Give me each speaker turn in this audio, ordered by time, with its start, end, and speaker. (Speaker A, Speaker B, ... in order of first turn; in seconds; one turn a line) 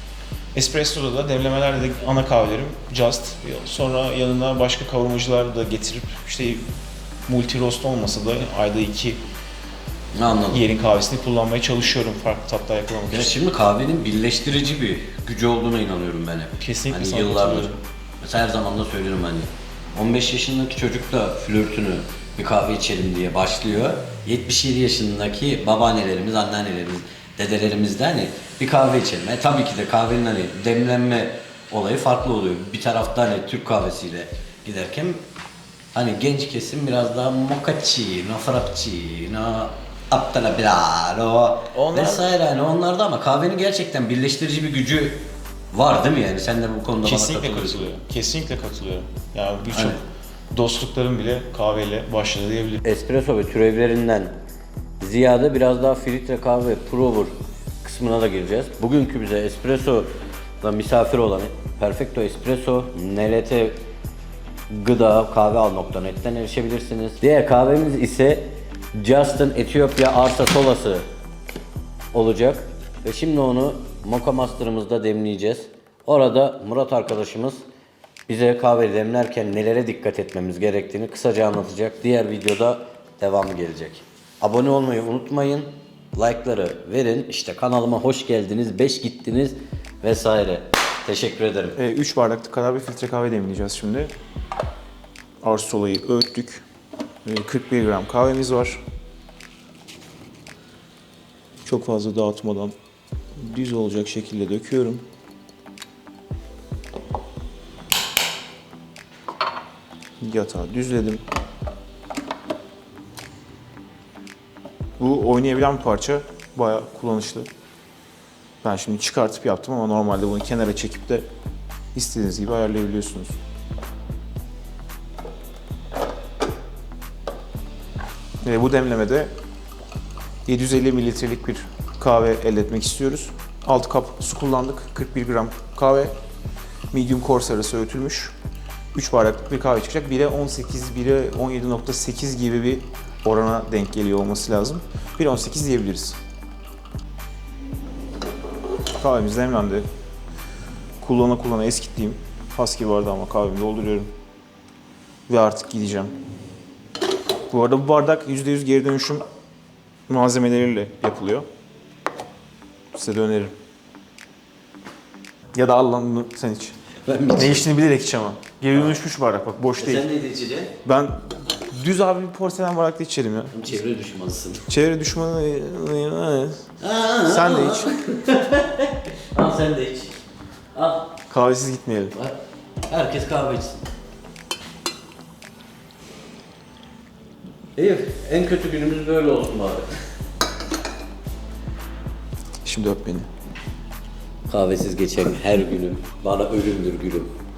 Speaker A: 0.5-6.6
Speaker A: 7.3-9.2
Speaker B: 10.2-10.6
Speaker A: 10.5-13.3
Speaker B: 13.1-35.2
Speaker A: 16.6-17.8
Speaker B: 35.9-47.9
Speaker A: 41.7-42.3
Speaker A: 47.0-50.0
Speaker B: 49.7-50.0
Speaker A: 50.5-52.8
Speaker B: 52.8-54.3
Speaker B: 55.0-60.1
Speaker B: 60.6-63.8
Speaker B: 64.7-71.0
Speaker B: 72.1-77.6
Speaker B: 78.3-91.8
Speaker A: 91.8-94.1
Speaker A: 95.4-96.6
Speaker A: 97.2-98.8
Speaker A: 101.6-102.7
Speaker A: 103.4-105.0
Speaker A: 110.2-111.2
Speaker A: 115.0-117.5
Speaker A: 118.6-121.2
Speaker A: 121.9-123.4
Speaker A: 128.4-129.3
Speaker A: 130.4-136.1
Speaker A: 136.9-138.3
Speaker A: 138.9-146.2
Speaker A: 149.0-149.8
Speaker A: 151.0-154.1
Speaker A: 155.3-156.1
Speaker A: 157.5-159.2
Speaker A: 160.1-161.4
Speaker A: 162.9-163.5
Speaker A: 165.5-166.8
Speaker B: 167.0-167.7
Speaker A: 167.3-170.1
Speaker B: 169.8-170.7
Speaker A: 170.8-173.6
Speaker B: 173.5-174.7
Speaker A: 174.7-176.6
Speaker B: 176.8-180.2
Speaker A: 177.2-177.9
Speaker B: 180.7-181.1
Speaker A: 181.3-182.1
Speaker B: 182.1-183.8
Speaker B: 187.8-189.9
Speaker A: 192.6-193.3
Speaker B: 194.5-197.3